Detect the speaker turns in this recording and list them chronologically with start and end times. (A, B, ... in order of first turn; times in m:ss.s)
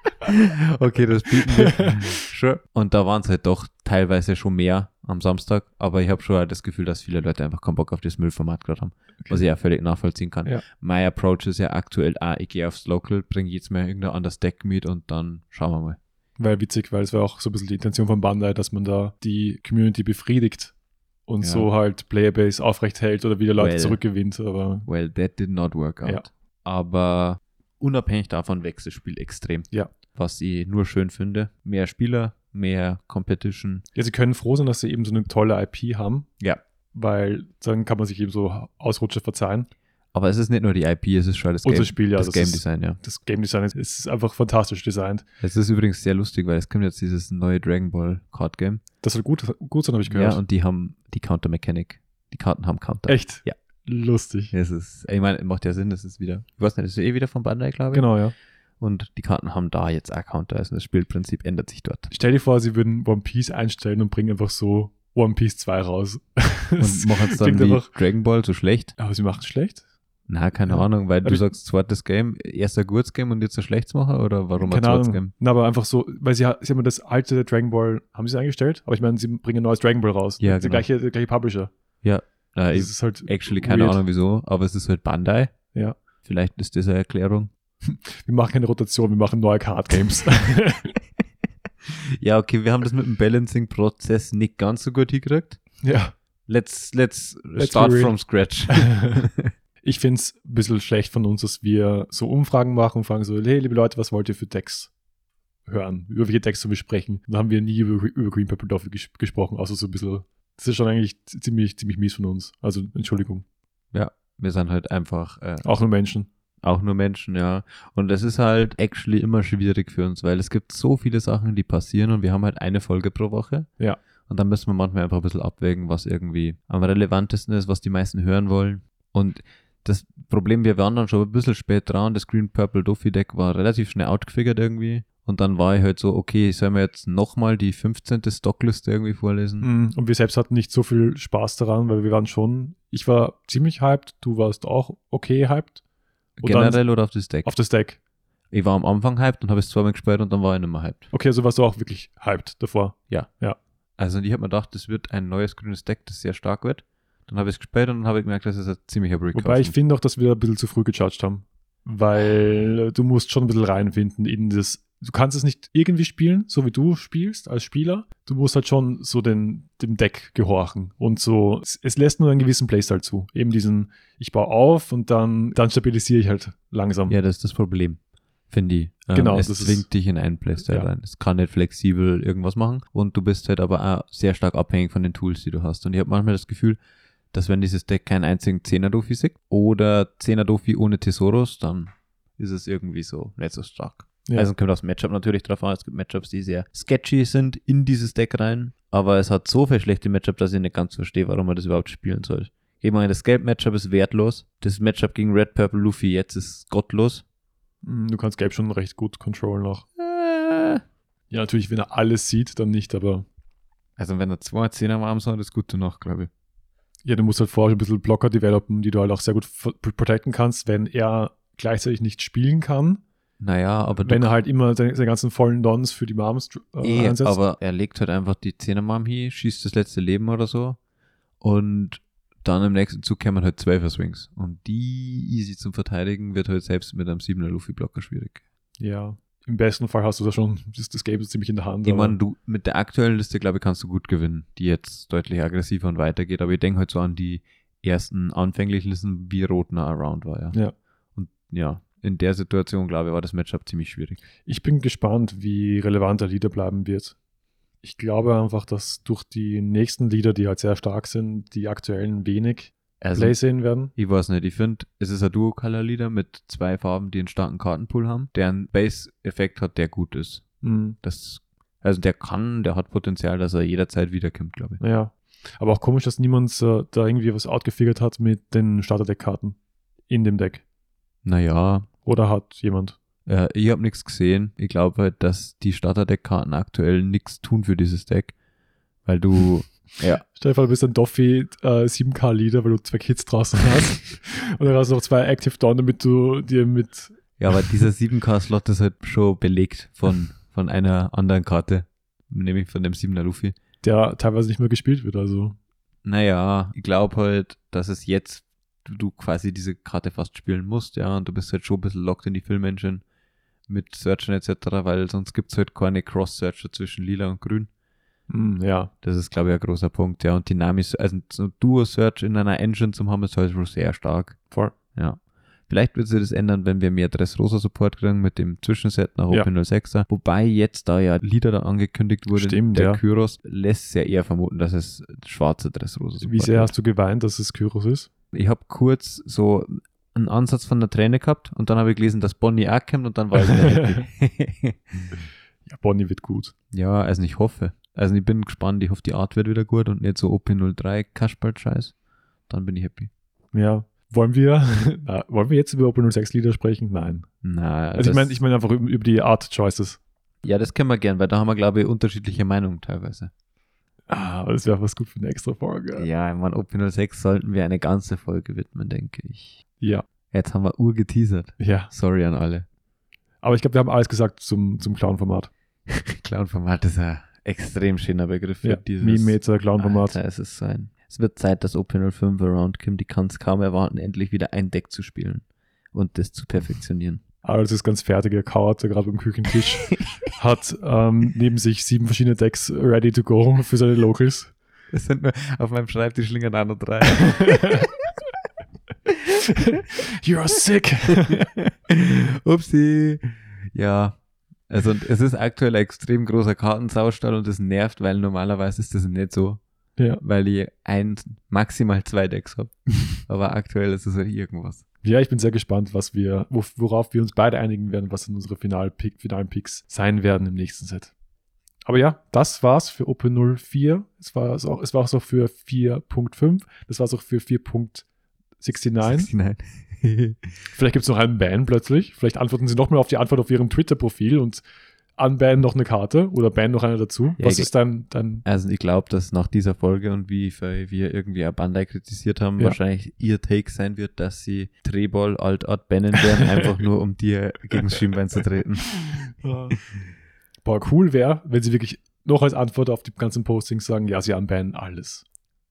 0:00.2-0:16.0 A
0:01.4-0:02.2 B
0:16.4-0:20.7 B
0:21.3-0:24.8 B
0:21.4-0:21.7 A
0:23.6-0:24.0 A
0:24.8-0:33.8 A
0:33.9-0:36.3 B
0:36.9-0:39.7 B
0:40.1-0:43.0 A
0:41.6-0:45.2 B
0:45.4-0:48.8 A
0:49.0-0:50.4 B
0:50.1-0:53.5 A
0:53.1-0:54.5 B
0:54.5-0:58.1 A
0:57.9-0:58.3 B
0:58.8-1:02.1 A
1:02.1-1:07.9 B
1:06.8-1:08.9 A
1:09.0-1:09.8 B
1:10.3-1:15.3 A
1:10.6-1:11.4 B
1:14.6-1:21.7 B
1:20.4-1:20.8 A
1:22.0-1:25.5 A
1:22.7-1:24.0 B
1:26.2-1:27.5 A
1:27.9-1:30.9 B
1:31.8-1:35.6 A
1:35.8-1:36.1 B
1:36.5-1:39.5 A
1:37.6-1:38.1 B
1:38.7-1:39.2 B
1:39.8-1:44.9 B
1:45.6-1:53.4 B
1:53.9-1:55.7 A
1:55.6-1:56.3 B
1:56.6-2:03.7 A
2:04.3-2:19.7 A
2:19.6-2:25.8 B
2:26.4-2:26.8 B
2:26.4-2:27.5 A
2:27.4-2:28.0 B
2:28.5-2:31.1 A
2:31.1-2:33.6 B
2:34.0-2:39.8 A
2:39.3-2:57.2 B
2:57.1-2:58.0 A
2:58.5-3:06.8 A
2:59.1-2:59.8 B
3:07.3-3:27.2 A
3:27.8-3:29.8 B
3:30.0-3:30.8 A
3:31.3-3:33.2 B
3:34.0-3:36.3 A
3:37.0-3:43.0 B
3:43.4-3:44.3 A
3:44.0-3:47.4 B
3:46.8-3:50.8 A
3:51.4-3:58.4 A
3:58.8-4:02.2 B
4:01.8-4:10.6 A
4:11.1-4:14.2 A
4:14.4-4:17.2 B
4:17.8-4:23.9 B
4:23.0-4:23.4 A
4:24.0-4:30.4 A
4:30.6-4:31.0 B
4:31.0-4:34.8 A
4:34.8-4:39.6 B
4:40.1-4:40.6 B
4:41.2-4:41.9 A
4:42.0-4:43.0 B
4:43.2-4:48.3 A
4:49.0-4:50.2 A
4:50.3-4:57.2 B
4:57.4-5:03.6 A
5:03.8-5:05.6 B
5:06.0-5:13.0 A
5:13.7-5:17.7 A
5:18.3-5:18.9 B
5:19.0-5:24.4 A
5:24.5-5:24.8 B
5:24.9-5:36.7 A
5:32.3-5:33.0 B
5:36.2-5:38.1 B
5:38.3-5:45.2 A
5:43.4-5:44.0 B
5:45.6-5:46.5 B
5:46.7-5:51.9 A
5:52.5-5:53.1 A
5:53.5-5:57.3 B
5:57.4-5:58.4 A
5:57.9-6:00.0 B
6:00.4-6:03.3 A
6:04.1-6:06.1 B
6:05.9-6:09.6 A
6:10.3-6:12.6 A
6:11.6-6:11.9 B
6:13.4-6:15.5 B
6:15.9-6:27.2 A
6:18.6-6:20.2 B
6:27.4-6:34.5 B
6:34.9-6:38.0 A
6:37.2-6:37.8 B
6:39.6-6:41.4 B
6:41.1-6:44.2 A
6:44.7-6:49.6 A
6:50.2-6:54.8 A
6:55.0-7:01.1 B
7:01.9-7:08.0 B
7:08.6-7:09.3 B
7:09.0-7:10.5 A
7:10.7-7:14.6 B
7:15.2-7:18.4 B
7:17.4-7:17.7 A
7:18.4-7:29.2 A
7:29.4-7:29.8 B
7:30.6-7:35.2 B